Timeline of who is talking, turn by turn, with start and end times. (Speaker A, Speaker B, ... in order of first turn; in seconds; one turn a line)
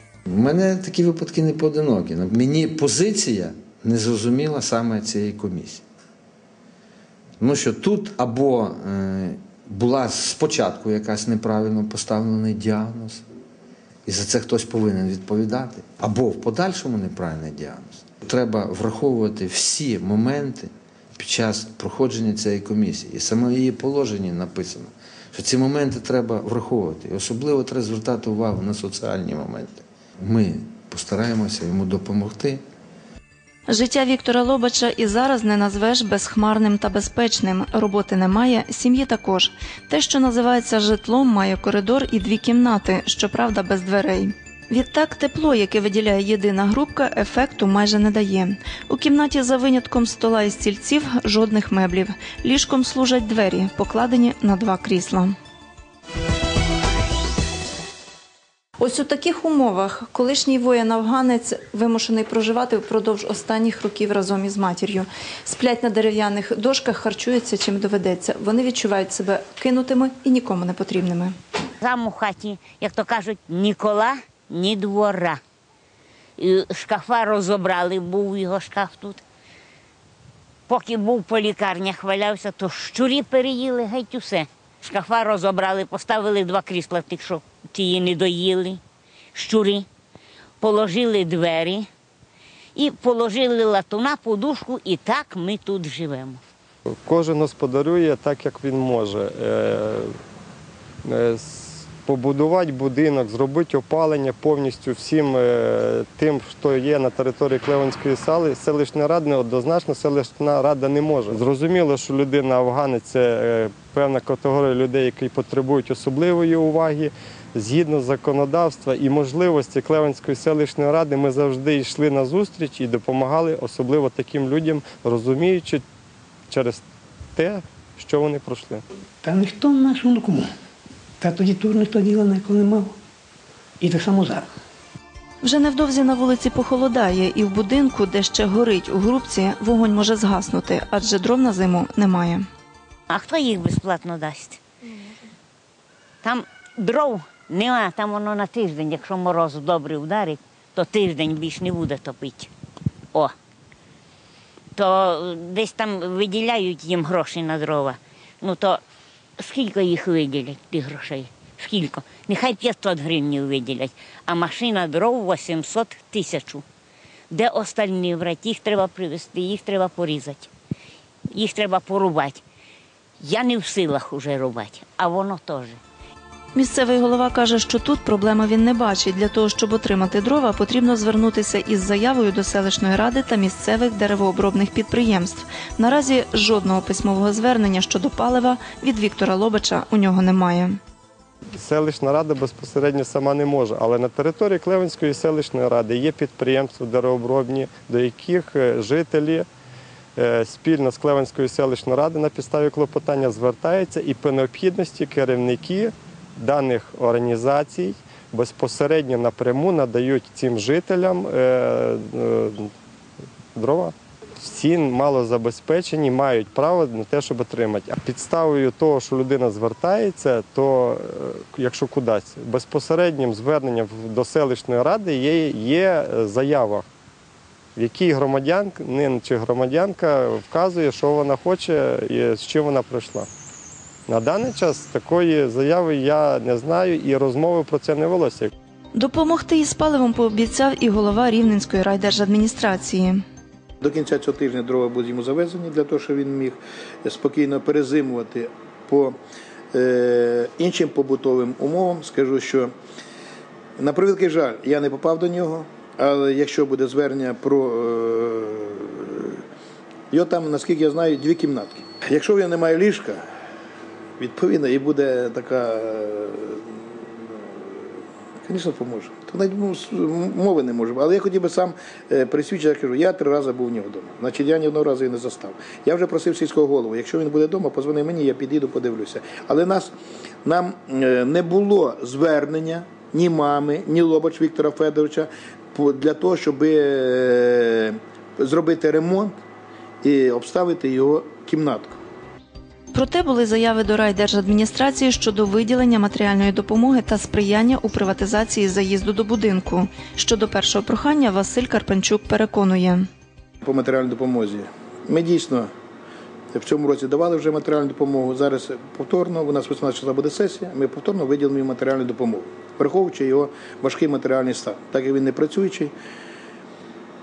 Speaker A: 0.3-5.8
Speaker A: 7.4-13.2
Speaker A: 14.1-32.6
Speaker B: 33.7-55.4
Speaker B: 58.8-71.3
Speaker C: 71.8-75.4
Speaker C: 76.4-79.2
Speaker C: 80.7-88.8
Speaker C: 89.3-89.9
Speaker C: 90.6-91.9
Speaker C: 92.7-96.4
Speaker D: 96.9-100.2
Speaker D: 101.0-125.8
Speaker D: 126.5-126.8
Speaker D: 127.3-128.8
Speaker E: 129.2-130.5
Speaker E: 131.2-132.9
Speaker E: 133.8-134.5
Speaker B: 135.4-142.5
Speaker C: 143.1-144.6
Speaker C: 146.2-152.5
Speaker C: 154.8-158.8
Speaker C: 159.4-166.6
Speaker C: 167.3-170.5
Speaker C: 171.3-172.4
Speaker C: 173.2-175.8
Speaker B: 176.5-190.8
Speaker D: 191.5-199.5
Speaker D: 200.2-212.7
Speaker D: 213.5-226.8
Speaker D: 227.8-233.3
Speaker D: 234.1-238.5
Speaker B: 238.9-243.2
Speaker F: 243.8-249.2
Speaker F: 249.7-252.7
Speaker F: 253.8-259.4
Speaker F: 260.1-263.2
Speaker F: 264.2-267.8
Speaker F: 268.4-279.9
Speaker F: 280.4-289.4
Speaker F: 290.0-291.9
Speaker B: 292.9-303.1
Speaker F: 303.6-305.7
Speaker F: 306.5-315.9